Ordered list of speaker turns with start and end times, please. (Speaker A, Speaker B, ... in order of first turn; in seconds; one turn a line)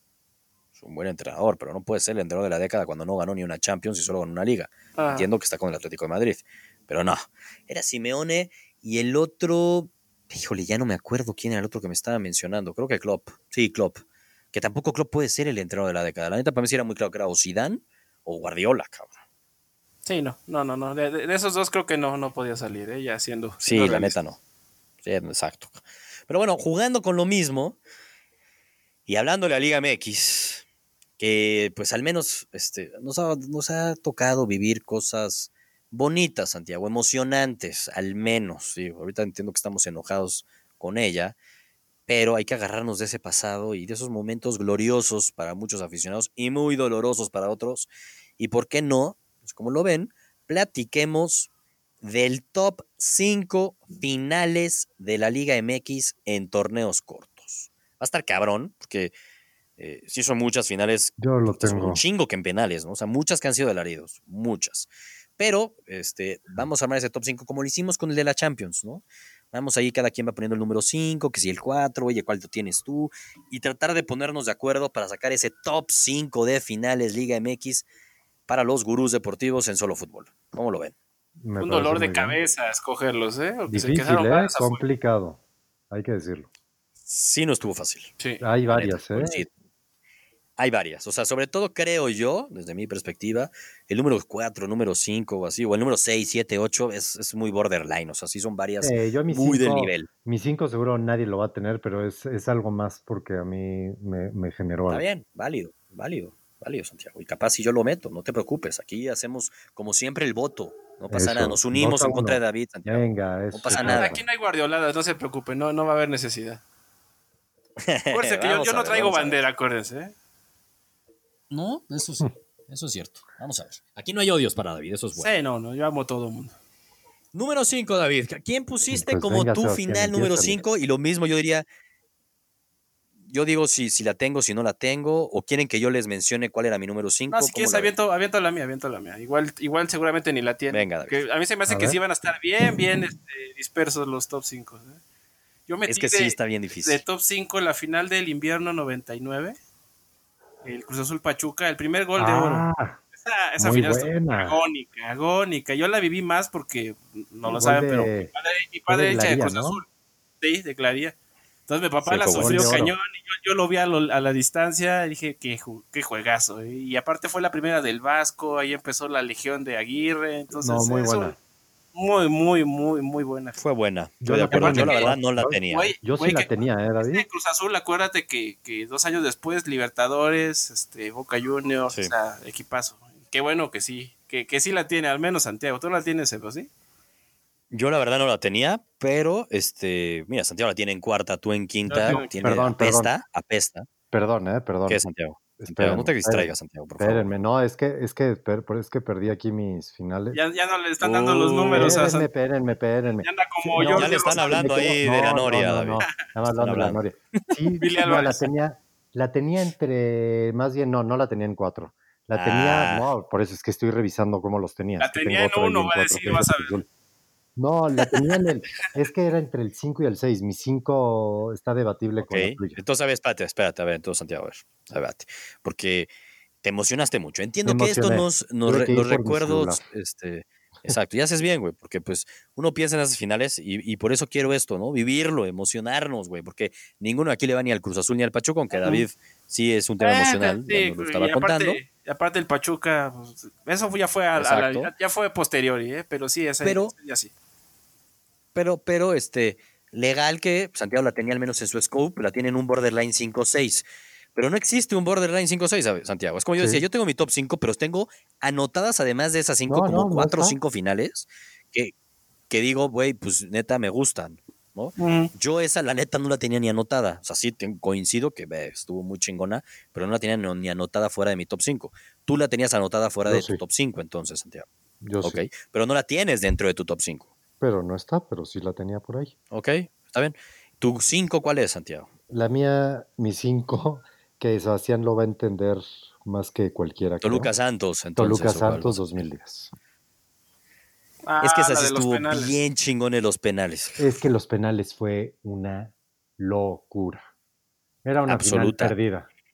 Speaker A: 0.8-19.1
Speaker B: 5.0-5.3
Speaker B: 20.1-24.2
Speaker A: 23.6-24.4
Speaker A: 25.0-27.8
Speaker A: 29.1-30.6
Speaker A: 31.2-41.4
Speaker A: 42.1-51.5
Speaker A: 52.0-59.1
Speaker A: 59.8-77.9
Speaker C: 61.2-62.0
Speaker A: 78.5-80.9
Speaker C: 81.4-82.4
Speaker B: 81.6-84.8
Speaker C: 83.7-85.4
Speaker C: 85.9-86.5
Speaker A: 87.1-88.1
Speaker C: 88.4-89.5
Speaker A: 88.7-89.5
Speaker A: 90.6-100.1
Speaker C: 98.8-105.0
Speaker A: 104.9-114.2
Speaker C: 111.1-114.2
Speaker B: 113.7-116.6
Speaker A: 117.8-119.4
Speaker B: 118.1-120.1
Speaker A: 121.5-125.3
Speaker B: 125.2-126.5
Speaker A: 127.3-131.7
Speaker C: 128.9-130.6
Speaker A: 133.3-137.9
Speaker B: 137.3-145.0
Speaker A: 140.7-141.2
Speaker C: 141.7-142.0
Speaker B: 145.7-149.6
Speaker A: 145.9-147.0
Speaker B: 150.6-159.9
Speaker C: 152.2-153.0
Speaker C: 153.6-154.6
Speaker C: 157.4-158.3
Speaker C: 158.9-159.8
Speaker B: 160.4-161.2
Speaker B: 161.7-171.4
Speaker A: 162.0-162.8
Speaker C: 162.4-163.0
Speaker C: 170.5-171.4
Speaker B: 171.9-173.6
Speaker A: 173.6-175.9
Speaker C: 174.2-177.3
Speaker B: 174.5-175.2
Speaker B: 175.7-186.7
Speaker A: 187.7-193.9
Speaker B: 191.9-192.5
Speaker C: 192.1-193.1
Speaker C: 194.1-195.0
Speaker A: 194.9-197.3
Speaker C: 195.6-200.4
Speaker B: 200.3-202.3
Speaker A: 201.0-202.0
Speaker C: 201.7-216.9
Speaker B: 203.2-205.0
Speaker A: 203.9-207.0
Speaker B: 207.8-208.5
Speaker A: 212.3-213.1
Speaker B: 215.0-216.8
Speaker C: 217.6-222.8
Speaker A: 222.2-226.1
Speaker A: 226.6-241.8
Speaker C: 227.7-229.8
Speaker B: 238.7-239.1
Speaker B: 240.0-247.3
Speaker A: 244.4-244.9
Speaker A: 246.6-246.9
Speaker A: 248.6-261.9
Speaker C: 256.6-256.8
Speaker C: 259.7-260.6
Speaker A: 262.5-274.7
Speaker B: 265.0-265.3
Speaker C: 273.3-273.6
Speaker C: 275.0-275.4
Speaker A: 275.2-277.3
Speaker C: 277.6-279.3
Speaker A: 279.5-282.1
Speaker C: 282.3-287.5
Speaker A: 287.2-289.1
Speaker C: 288.2-289.7
Speaker B: 291.3-292.6
Speaker A: 291.4-294.0
Speaker C: 294.0-297.3
Speaker C: 298.1-299.3
Speaker A: 298.3-299.0